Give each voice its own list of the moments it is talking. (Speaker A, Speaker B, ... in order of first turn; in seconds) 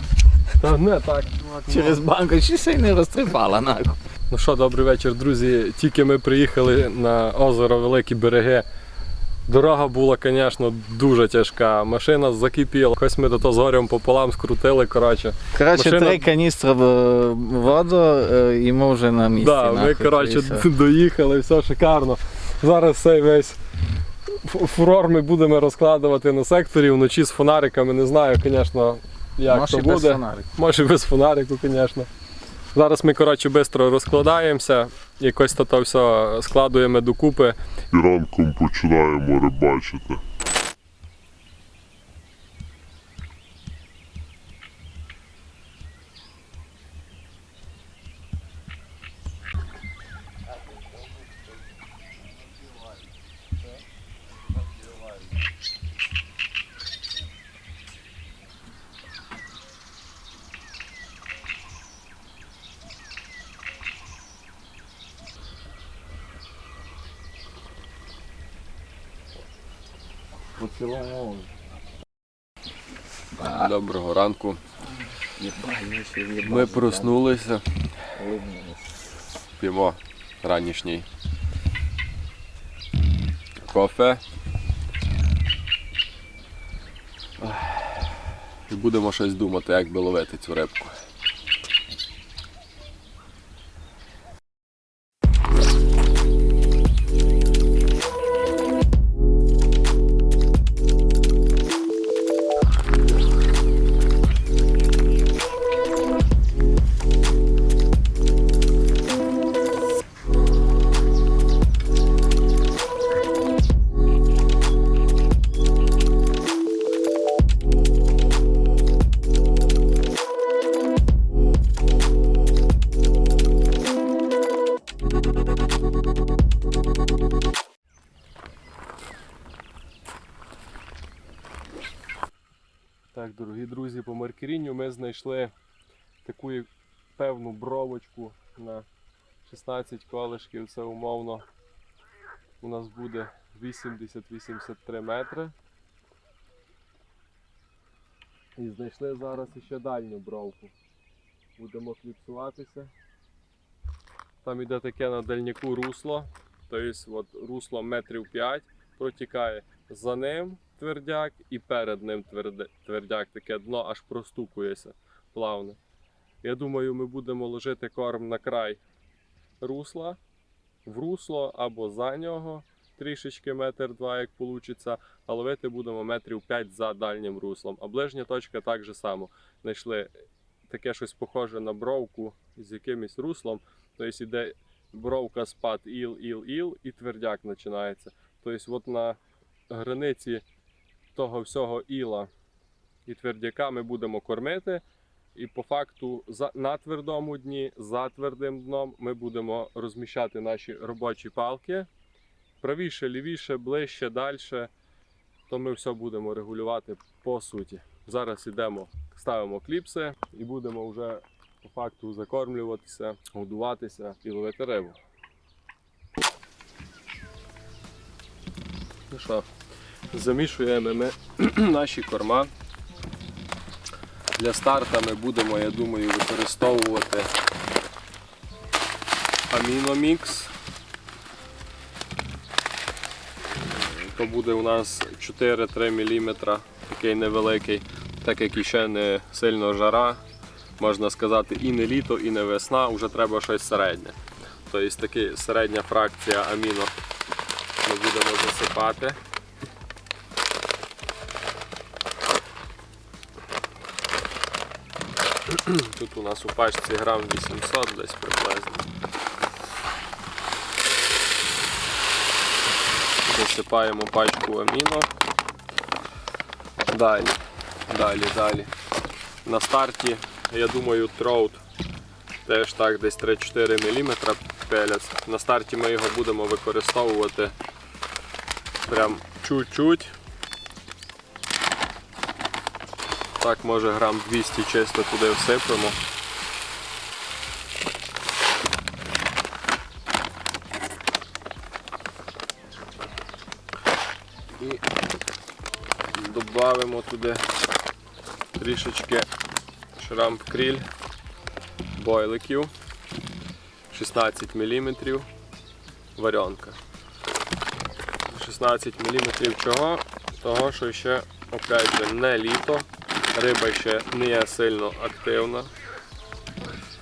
Speaker A: 0.6-2.0, 4.3-8.7, 9.5-16.3, 19.4-23.6, 24.4-32.1, 32.7-37.6, 73.4-74.6, 76.4-77.6, 79.6-81.0, 83.6-84.2, 87.4-88.1, 88.7-90.9, 133.1-135.5, 136.2-138.8, 139.4-141.4, 142.6-145.5, 148.6-150.7, 151.6-152.9, 154.4-165.8, 166.4-168.8, 169.6-170.2, 170.8-180.1, 180.7-189.2, 189.7-190.4, 191.1-192.3, 193.1-194.8, 195.3-201.9, 202.6-204.7, 205.5-215.0, 219.1-219.4, 220.1-222.5, 224.3-227.3, 229.5-230.5, 233.8-240.2, 240.8-244.2, 244.7-246.9, 247.8-249.2, 255.5-258.9, 263.2-265.1, 266.9-268.7, 269.4-271.6, 272.4-277.5, 278.9-280.1, 283.4-286.0, 294.6-294.8, 296.1-297.4, 298.6-299.3, 299.9-300.9, 301.9-302.7, 303.9-305.3, 306.1-306.8, 308.3-315.7
Speaker B: 1.6-4.0, 15.5-20.7, 29.4-30.5, 70.5-71.5, 73.4-73.7, 75.3-77.1, 78.1-79.0
Speaker C: 37.9-40.2